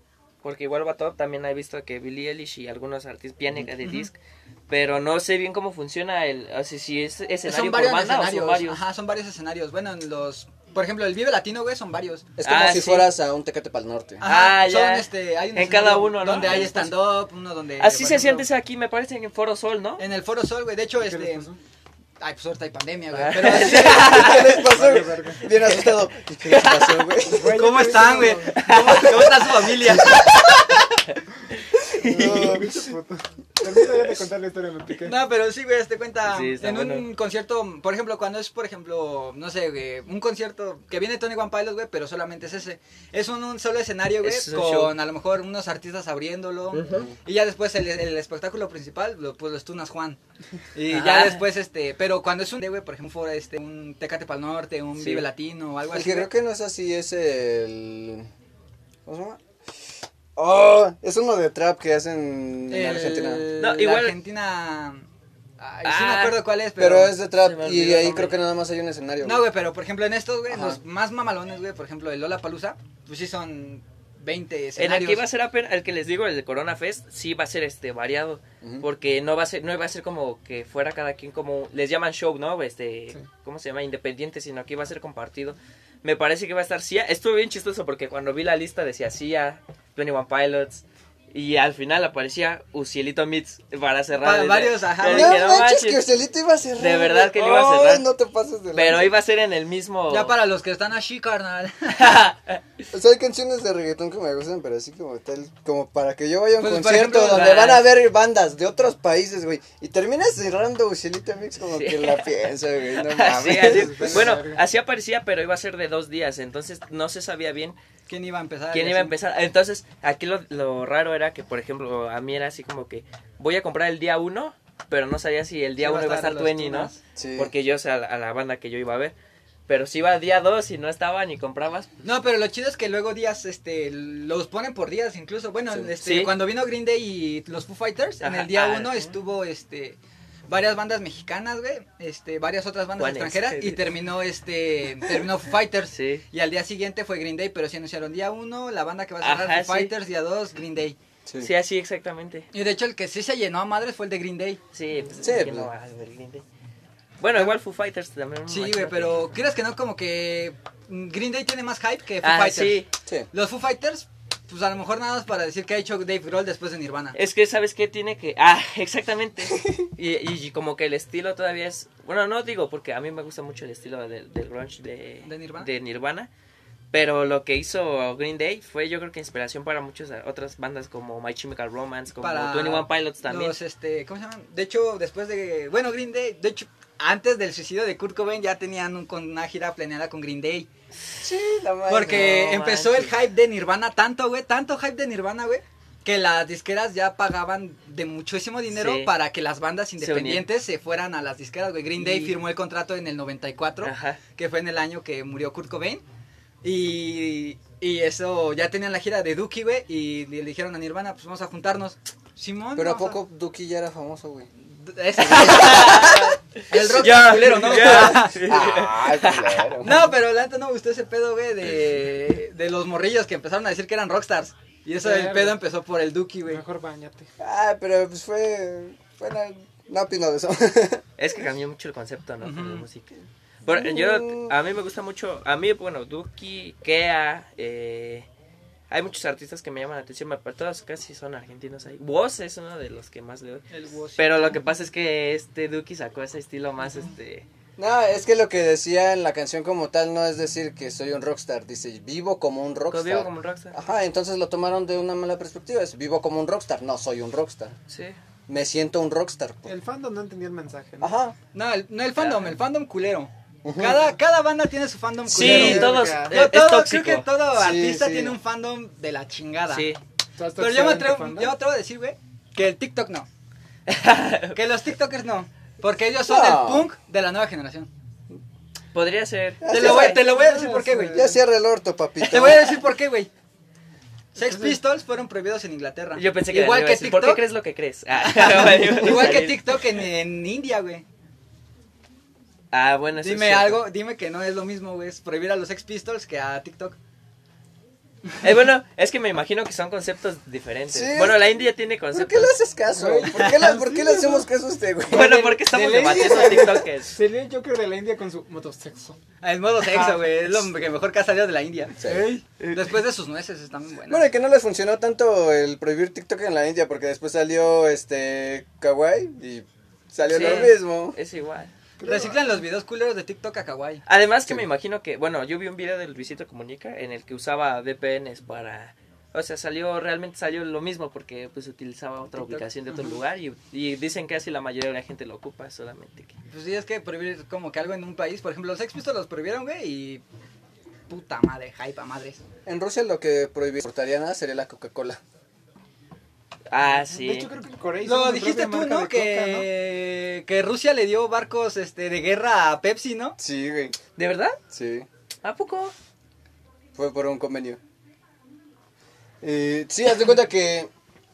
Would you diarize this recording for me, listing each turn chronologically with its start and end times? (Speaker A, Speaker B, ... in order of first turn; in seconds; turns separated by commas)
Speaker A: 0.4-4.2, Speaker B: 3.8-4.1, Speaker A: 4.7-8.8, Speaker B: 7.5-12.3, Speaker C: 12.4-14.2, Speaker A: 12.4-13.1, Speaker B: 14.2-18.5, Speaker A: 14.2-17.1, Speaker A: 17.8-20.0, Speaker B: 20.0-21.5, Speaker D: 21.0-21.6, Speaker B: 22.2-24.4, Speaker A: 23.1-24.7, Speaker C: 23.5-27.8, Speaker D: 24.4-25.5, Speaker A: 26.4-27.1, Speaker D: 27.3-28.8, Speaker B: 27.5-30.5, Speaker A: 28.5-30.4, Speaker C: 30.0-30.3, Speaker A: 31.9-32.6, Speaker C: 32.0-32.9, Speaker D: 32.0-35.2, Speaker B: 35.0-50.2, Speaker A: 36.3-37.1, Speaker A: 44.2-45.0, Speaker A: 46.7-47.1, Speaker B: 50.8-56.3, Speaker A: 50.9-51.5, Speaker A: 55.0-55.3, Speaker C: 55.9-58.3, Speaker C: 59.1-59.4, Speaker C: 60.4-63.5, Speaker B: 62.7-65.1, Speaker A: 63.6-64.2, Speaker B: 65.6-67.2, Speaker A: 65.8-66.5, Speaker C: 66.8-69.5, Speaker A: 67.4-68.4, Speaker B: 69.2-75.2, Speaker C: 70.5-70.8, Speaker A: 74.8-96.0, Speaker B: 94.2-95.6, Speaker C: 95.0-99.1, Speaker A: 96.8-98.1, Speaker A: 98.7-100.3, Speaker B: 100.1-102.2, Speaker A: 102.0-102.6, Speaker C: 102.9-114.4, Speaker B: 106.6-107.8, Speaker A: 107.2-107.8, Speaker A: 111.7-112.3, Speaker A: 112.9-117.8, Speaker D: 113.6-114.6, Speaker B: 118.1-119.2, Speaker A: 118.7-129.1, Speaker B: 125.8-127.0, Speaker C: 127.2-127.5, Speaker A: 129.7-131.9, Speaker B: 132.0-151.0, Speaker A: 136.0-136.3, Speaker A: 138.2-139.0, Speaker A: 143.0-143.9, Speaker A: 145.9-146.2, Speaker A: 149.2-149.9, Speaker C: 151.3-151.5, Speaker A: 151.4-152.5, Speaker B: 152.5-154.6, Speaker A: 154.7-156.4, Speaker C: 155.2-155.7, Speaker A: 157.2-159.3, Speaker B: 158.5-167.2, Speaker A: 162.2-162.9, Speaker A: 167.2-176.3, Speaker B: 175.2-175.7, Speaker A: 176.9-183.6, Speaker B: 182.2-190.7, Speaker C: 191.2-192.3, Speaker B: 191.9-206.0, Speaker A: 192.0-193.1, Speaker A: 198.7-199.1, Speaker A: 200.0-200.5, Speaker A: 202.0-202.4, Speaker A: 203.8-204.2, Speaker B: 206.6-213.2, Speaker C: 212.8-214.5, Speaker B: 214.7-218.4, Speaker A: 215.2-219.7, Speaker C: 217.7-220.1, Speaker B: 219.8-226.6, Speaker D: 225.0-225.6, Speaker D: 226.5-227.3, Speaker C: 227.4-231.1, Speaker A: 231.2-233.1, Speaker B: 232.4-232.8, Speaker A: 233.6-238.3, Speaker C: 233.7-234.5, Speaker A: 238.9-243.7, Speaker B: 243.7-244.6, Speaker A: 244.2-247.5, Speaker C: 247.8-257.8, Speaker A: 252.9-253.8, Speaker A: 257.9-258.2, Speaker C: 258.5-259.7, Speaker D: 259.7-261.1, Speaker C: 261.0-261.4, Speaker B: 261.5-269.9, Speaker A: 262.2-262.5, Speaker C: 263.6-264.0, Speaker A: 265.3-267.3, Speaker D: 265.4-266.4, Speaker C: 267.5-268.4, Speaker A: 269.7-270.0, Speaker D: 270.4-271.6, Speaker B: 270.6-273.3, Speaker A: 273.9-274.6, Speaker B: 274.5-277.9, Speaker C: 276.3-276.9, Speaker A: 278.9-280.1, Speaker C: 279.6-280.2, Speaker B: 279.7-281.3, Speaker D: 279.9-281.4, Speaker C: 281.1-282.8, Speaker B: 282.2-283.3, Speaker B: 284.4-287.4, Speaker D: 284.4-284.8, Speaker A: 286.2-290.0, Speaker B: 288.2-291.1, Speaker A: 292.7-293.8, Speaker B: 293.2-297.0, Speaker A: 298.4-302.5, Speaker C: 300.9-301.6, Speaker C: 302.1-305.4, Speaker D: 302.9-304.5, Speaker A: 305.1-307.2, Speaker B: 305.2-306.6, Speaker D: 305.6-309.2, Speaker B: 309.4-312.0, Speaker D: 309.8-310.3, Speaker C: 312.0-312.3, Speaker D: 312.1-312.4, Speaker B: 312.7-314.2, Speaker C: 314.1-321.2, Speaker B: 320.3-320.7, Speaker A: 320.3-321.7, Speaker D: 322.0-322.5, Speaker B: 322.0-324.0, Speaker A: 324.1-336.4, Speaker B: 332.4-333.1, Speaker B: 336.5-340.2, Speaker B: 341.1-342.4, Speaker C: 342.7-345.2, Speaker A: 346.7-347.5, Speaker D: 346.9-349.7, Speaker B: 348.0-353.4, Speaker C: 353.4-354.0, Speaker A: 354.2-354.6, Speaker C: 354.7-355.1, Speaker A: 355.4-355.9, Speaker C: 356.9-357.8, Speaker C: 359.4-360.9